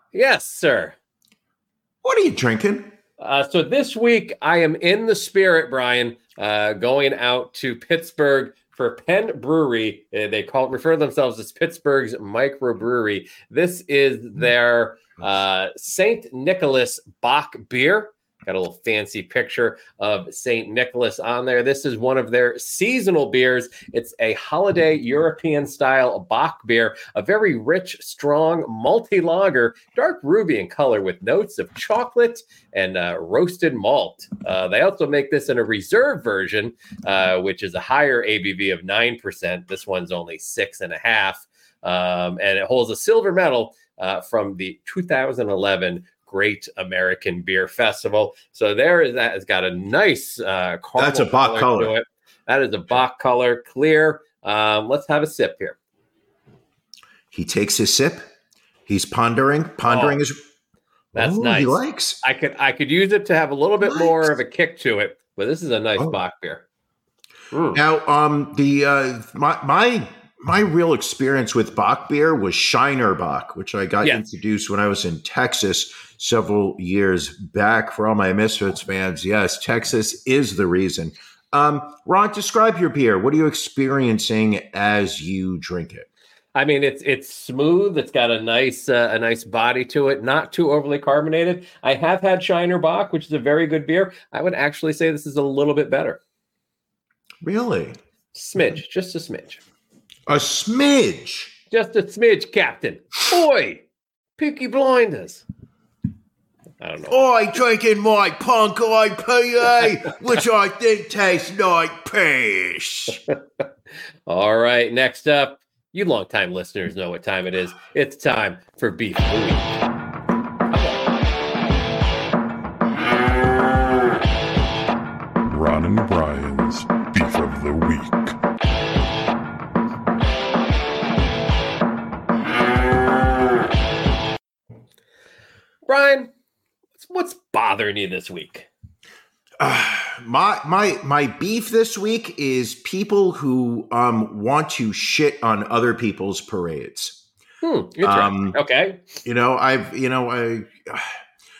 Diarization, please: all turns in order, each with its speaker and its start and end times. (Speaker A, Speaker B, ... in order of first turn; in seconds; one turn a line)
Speaker A: 0.1-0.9
Speaker B: 2.0-2.9
Speaker A: 3.2-55.8
Speaker B: 51.0-51.9
Speaker B: 57.3-58.3
Speaker B: 58.9-60.4
Speaker A: 59.9-60.2
Speaker B: 61.1-62.2
Speaker A: 61.1-66.6
Speaker B: 63.8-64.3
Speaker A: 67.5-67.8
Speaker B: 67.7-86.1
Speaker A: 86.5-96.2
Speaker B: 97.4-98.0
Speaker A: 98.3-99.6
Speaker B: 100.3-101.6
Speaker A: 101.7-103.8
Speaker A: 104.4-105.4
Speaker A: 106.8-107.2
Speaker B: 107.1-113.2
Speaker A: 114.3-119.7
Speaker C: 125.5-128.3
Speaker A: 135.8-136.3
Speaker A: 137.0-138.7
Speaker B: 139.6-147.2
Speaker A: 147.6-149.0
Speaker B: 148.0-148.6
Speaker B: 149.2-151.1